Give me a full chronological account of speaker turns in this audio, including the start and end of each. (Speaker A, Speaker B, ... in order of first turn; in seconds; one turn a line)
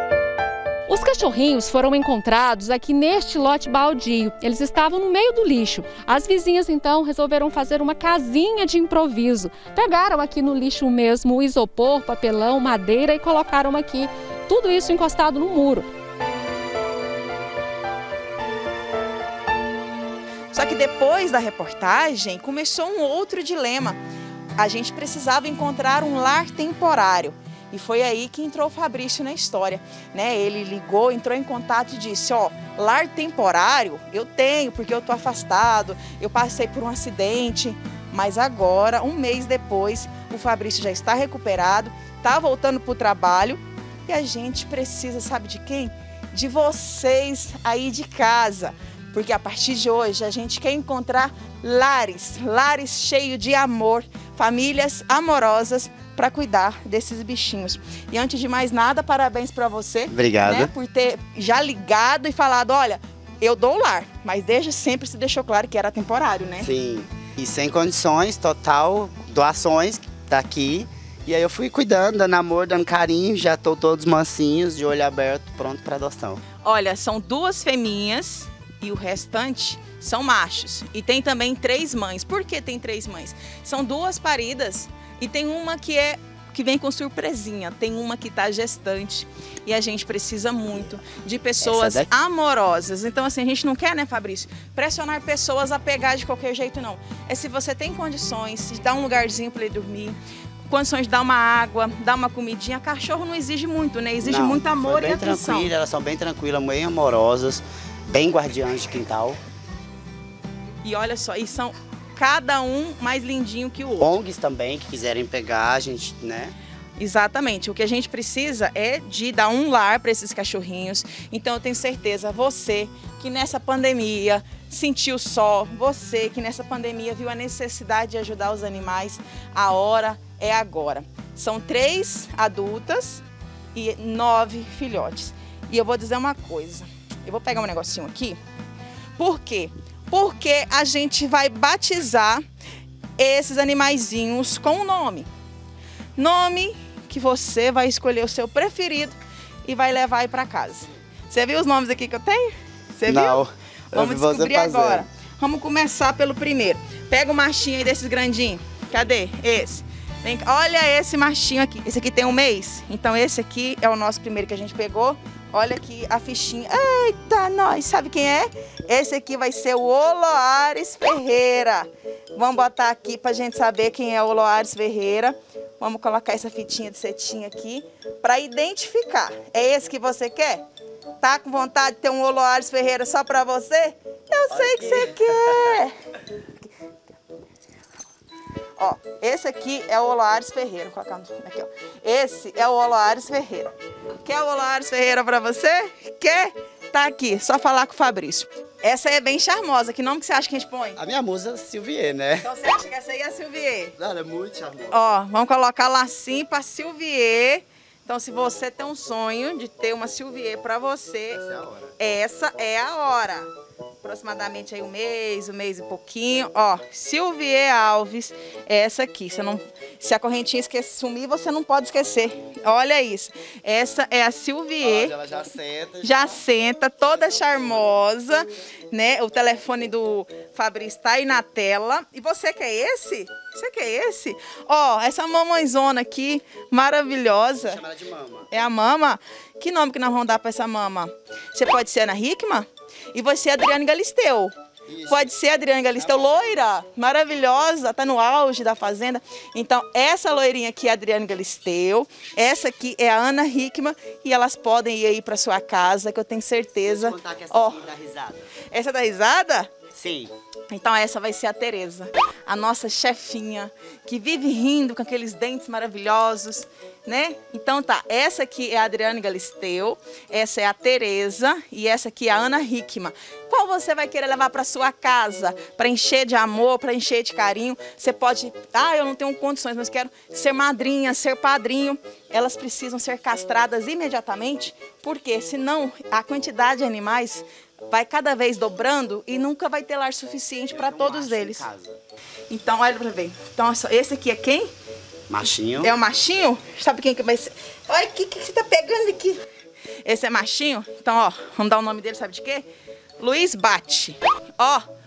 Speaker A: 0.9-15.9
Speaker B: 20.5-24.0
Speaker B: 24.6-66.7
Speaker C: 60.1-60.7
Speaker C: 66.6-76.4
Speaker B: 76.6-100.2
Speaker C: 91.6-92.1
Speaker B: 100.7-105.7
Speaker C: 104.2-109.4
Speaker B: 110.8-114.2
Speaker C: 114.0-116.5
Speaker B: 117.0-133.2
Speaker B: 133.8-138.4
Speaker B: 139.2-142.4
Speaker B: 143.2-145.3
Speaker B: 146.2-180.6
Speaker C: 153.1-155.1
Speaker B: 181.2-185.9
Speaker C: 184.5-185.2
Speaker B: 188.8-201.0
Speaker C: 201.0-202.5
Speaker B: 202.4-203.9
Speaker C: 204.0-205.0
Speaker B: 204.9-211.4
Speaker C: 211.3-211.9
Speaker B: 212.0-213.5
Speaker B: 214.0-225.3
Speaker C: 224.8-226.4
Speaker B: 226.0-237.8
Speaker C: 237.6-238.5
Speaker B: 238.5-244.5
Speaker C: 244.9-245.3
Speaker B: 245.1-257.9
Speaker C: 245.9-246.4
Speaker C: 256.9-258.5
Speaker B: 258.6-259.8
Speaker C: 259.9-260.3
Speaker B: 260.7-291.7
Speaker C: 290.7-292.0
Speaker B: 292.5-294.7
Speaker C: 295.3-295.9
Speaker B: 295.8-299.4
Speaker B: 300.1-302.7
Speaker B: 303.2-304.8